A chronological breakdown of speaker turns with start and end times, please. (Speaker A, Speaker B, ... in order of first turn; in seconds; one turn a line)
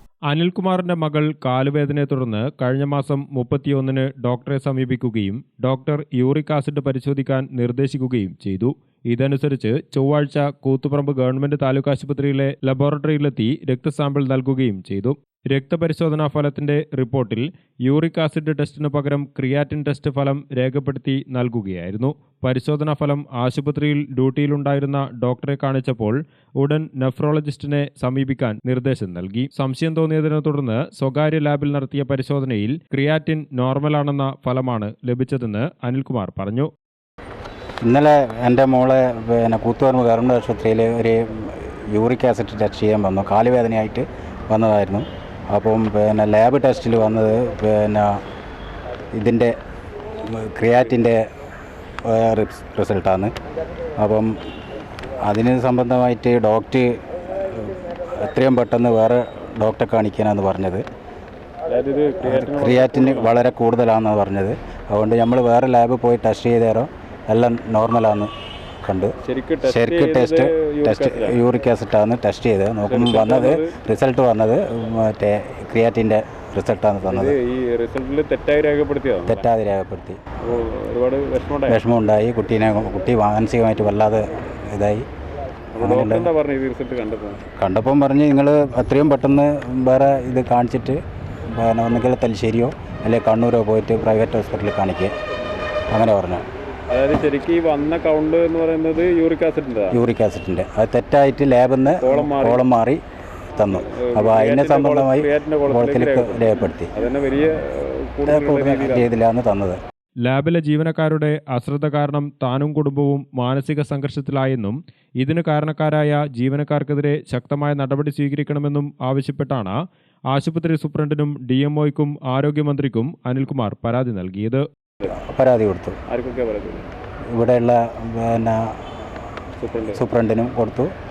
Speaker A: 0.3-36.7
Speaker B: 37.8-48.2
Speaker B: 49.2-49.5
Speaker B: 50.2-51.2
Speaker B: 52.0-53.3
Speaker B: 54.0-54.4
Speaker B: 55.2-60.8
Speaker C: 61.7-63.3
Speaker B: 62.2-68.3
Speaker B: 68.8-77.3
Speaker C: 69.2-71.4
Speaker C: 72.9-73.8
Speaker C: 77.0-79.4
Speaker B: 79.3-80.2
Speaker C: 80.5-81.8
Speaker B: 81.7-85.0
Speaker C: 85.8-87.4
Speaker B: 85.8-86.3
Speaker B: 87.6-95.1
Speaker B: 95.9-96.4
Speaker C: 96.9-100.0
Speaker B: 99.9-103.0
Speaker C: 102.0-102.6
Speaker B: 103.5-106.9
Speaker C: 103.7-109.1
Speaker B: 108.3-109.8
Speaker A: 110.2-119.7
Speaker A: 120.3-124.6
Speaker B: 125.2-126.0
Speaker C: 126.1-126.8
Speaker B: 127.3-128.8
Speaker C: 129.6-130.0
Speaker B: 129.9-130.9